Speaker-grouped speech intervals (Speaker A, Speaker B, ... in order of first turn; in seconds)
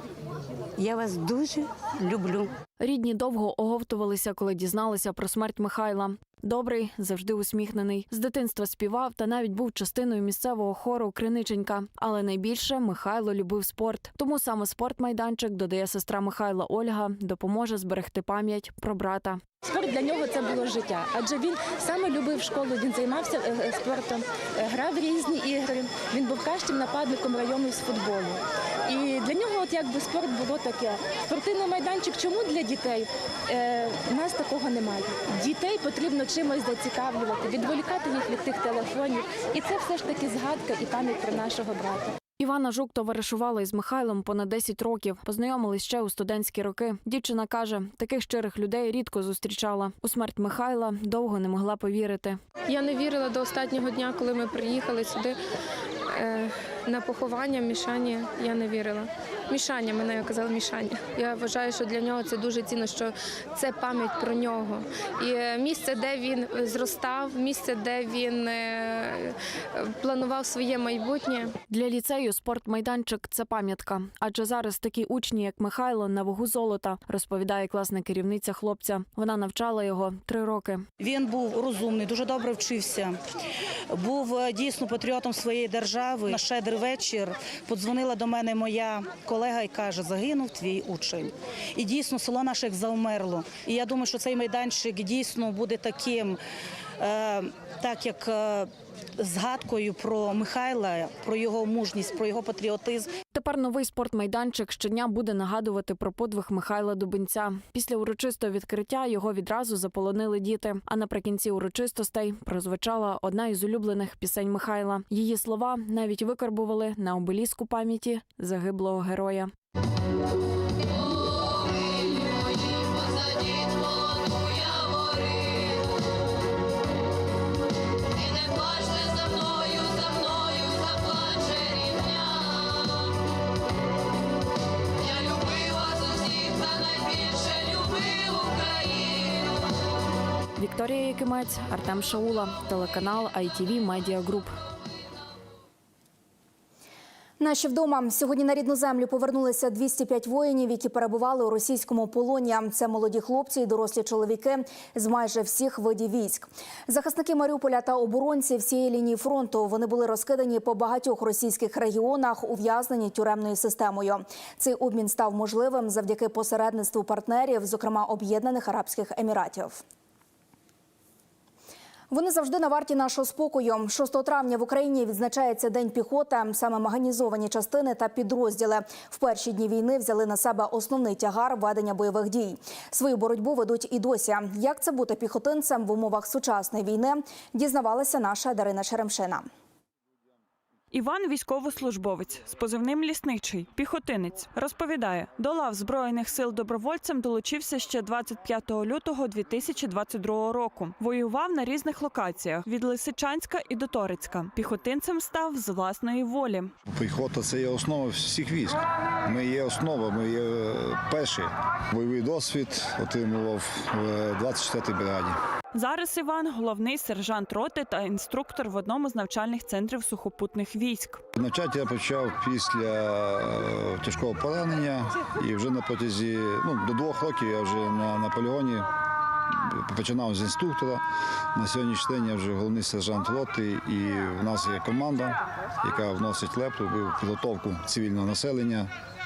Speaker A: 0.8-2.5, 81.0-83.2, 83.9-96.4, 97.0-103.1
Speaker B: 2.8-19.4, 42.4-52.4, 71.7-80.8, 103.3-119.5, 140.6-144.5
Speaker C: 19.7-42.1
Speaker D: 52.7-55.4, 56.1-71.5
Speaker E: 147.4-169.8, 172.1-189.5
Speaker F: 190.9-206.7, 215.7-221.2
Speaker G: 206.9-215.4, 221.3-228.9, 229.5-231.0, 231.5-238.9